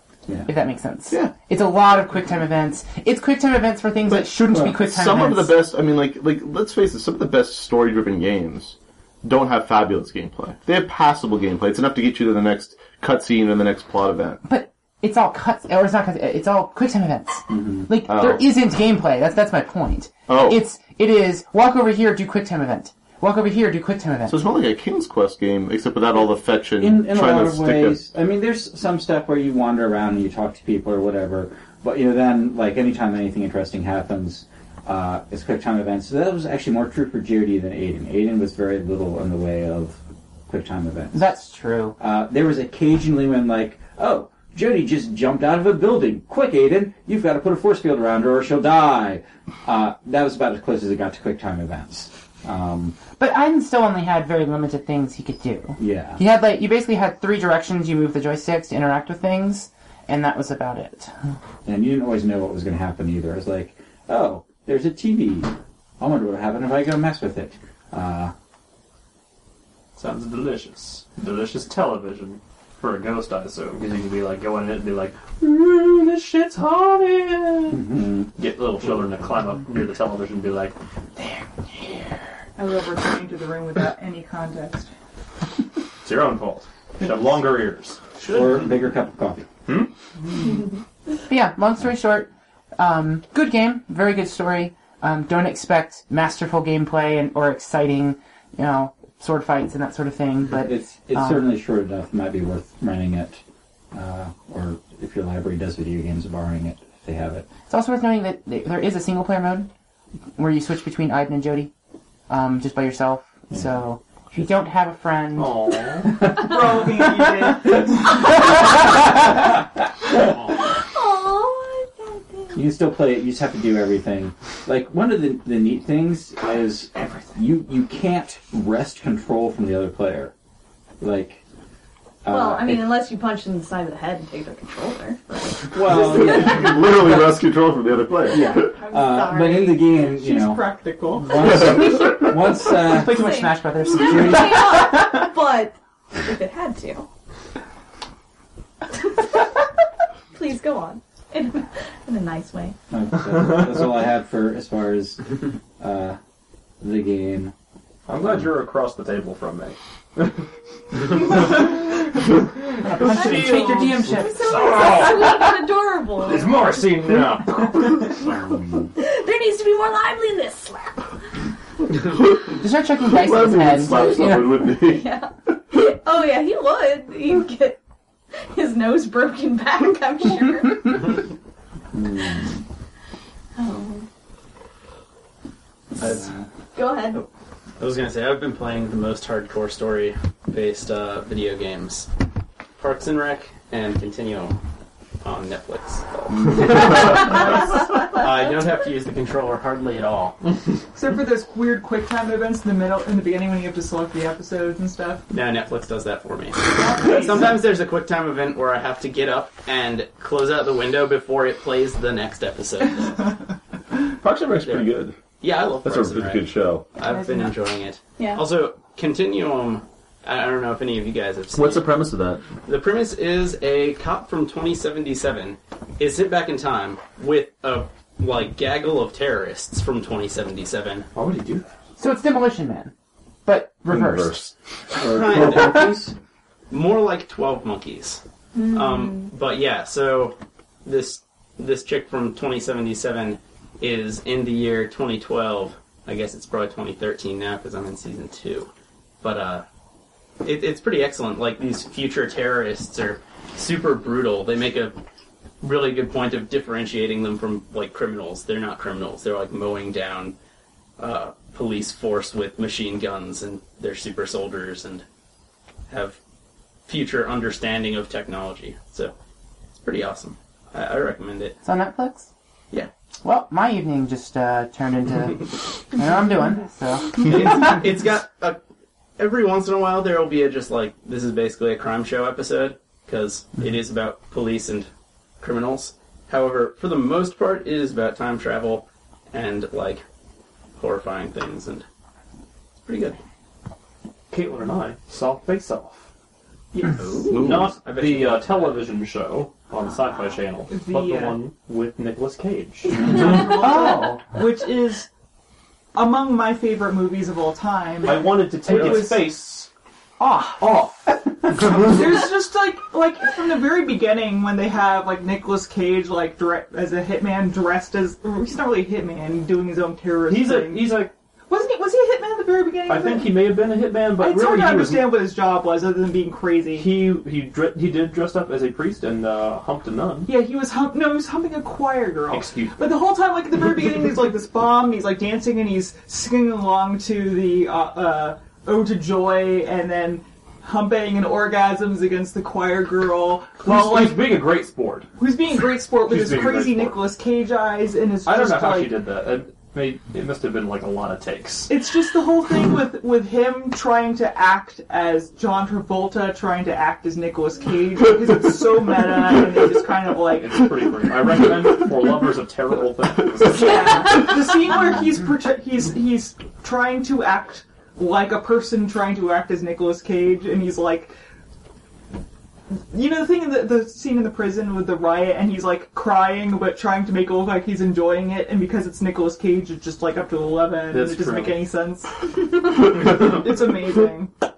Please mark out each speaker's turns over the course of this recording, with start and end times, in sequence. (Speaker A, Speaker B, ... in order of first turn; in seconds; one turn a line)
Speaker A: 0.5-5.6
Speaker B: 4.1-14.4
Speaker A: 14.4-24.4
Speaker C: 17.5-17.9
Speaker B: 18.1-18.4
Speaker B: 20.3-20.6
Speaker B: 24.3-28.0
Speaker C: 26.8-41.3
Speaker A: 41.1-42.0
Speaker C: 42.0-53.0
Speaker A: 53.2-61.1
Speaker C: 55.8-56.2
Speaker C: 61.6-68.3
Speaker D: 70.0-82.0
Speaker C: 77.7-78.3
Speaker E: 82.6-84.9
Speaker D: 86.0-88.0
Speaker C: 88.3-89.5
Speaker A: 91.3-101.5
Speaker C: 100.5-103.4
Speaker C: 103.9-107.5
Speaker A: 107.7-109.7
Speaker A: 110.4-111.7
Speaker A: 112.3-115.6
Speaker D: 115.3-116.1
Speaker E: 116.3-118.2
Speaker F: 120.5-122.6
Speaker C: 122.5-130.3
Speaker C: 131.0-131.4
Speaker C: 132.2-133.0
Speaker F: 132.3-136.7
Speaker C: 135.7-137.4
Speaker B: 135.9-138.7
Speaker C: 138.3-143.3
Speaker F: 138.3-139.9
Speaker E: 140.0-141.5
Speaker A: 142.7-144.8
Speaker F: 143.0-147.1
Speaker C: 143.9-144.7
Speaker F: 148.9-149.4
Speaker F: 150.3-152.8
Speaker C: 152.9-156.2
Speaker D: 153.3-153.6
Speaker C: 156.8-157.5
Speaker D: 158.1-160.4
Speaker D: 161.1-161.7
Speaker A: 162.8-164.4
Speaker D: 163.0-165.6
Speaker F: 163.1-166.8
Speaker D: 166.2-168.3
Speaker F: 169.0-171.1
Speaker B: 172.1-172.6
Speaker A: 172.6-174.7
Speaker B: 173.1-175.1
Speaker F: 174.8-177.8
Speaker F: 178.5-181.1
Speaker C: 181.9-182.6
Speaker F: 183.6-184.1
Speaker G: 186.0-186.3
Speaker F: 186.7-187.2
Speaker G: 187.8-192.1
Speaker G: 192.8-194.6
Speaker G: 195.2-197.5
Speaker E: 197.3-197.8
Speaker G: 198.2-200.3
Speaker E: 200.9-205.2
Speaker G: 205.3-213.3
Speaker E: 206.7-207.6
Speaker B: 214.2-215.1
Speaker G: 214.6-221.9
Speaker B: 215.8-216.9
Speaker F: 218.2-218.4
Speaker B: 221.5-222.4
Speaker G: 222.6-231.1
Speaker D: 231.1-231.7
Speaker A: 232.0-232.9
Speaker A: 233.4-234.5
Speaker B: 233.9-234.4
Speaker G: 235.0-236.1
Speaker C: 235.0-236.1
Speaker G: 236.7-248.7
Speaker F: 238.5-239.3
Speaker G: 249.2-249.6
Speaker G: 250.4-254.9
Speaker G: 255.6-260.3
Speaker G: 261.0-265.0
Speaker G: 265.9-266.2
Speaker G: 266.9-269.1
Speaker G: 269.8-271.6
Speaker A: 271.6-272.3
Speaker A: 273.2-277.3
Speaker G: 277.2-278.6
Speaker G: 279.2-284.9
Speaker G: 285.4-290.0
Speaker G: 290.8-291.8
Speaker G: 292.9-293.2
Speaker D: 294.3-296.1
Speaker E: 296.7-297.4
Speaker G: 296.9-298.9
Speaker B: 297.3-297.7
Speaker D: 297.3-303.5
Speaker E: 300.7-301.4
Speaker E: 302.9-305.1
Speaker A: 303.6-304.2
Speaker E: 305.9-309.3
Speaker D: 308.0-309.7
Speaker A: 310.2-310.6
Speaker D: 310.6-311.9
Speaker E: 311.6-323.4
Speaker D: 320.3-321.1
Speaker D: 322.9-325.2
Speaker E: 324.1-326.9
Speaker D: 326.7-330.3
Speaker E: 330.2-344.4
Speaker D: 332.3-332.9
Speaker D: 343.6-345.1
Speaker E: 345.2-349.0
Speaker D: 346.0-347.1
Speaker D: 348.2-351.8
Speaker E: 351.7-360.7
Speaker D: 360.3-364.3
Speaker E: 363.4-371.1
Speaker E: 372.9-384.3
Speaker D: 380.9-381.6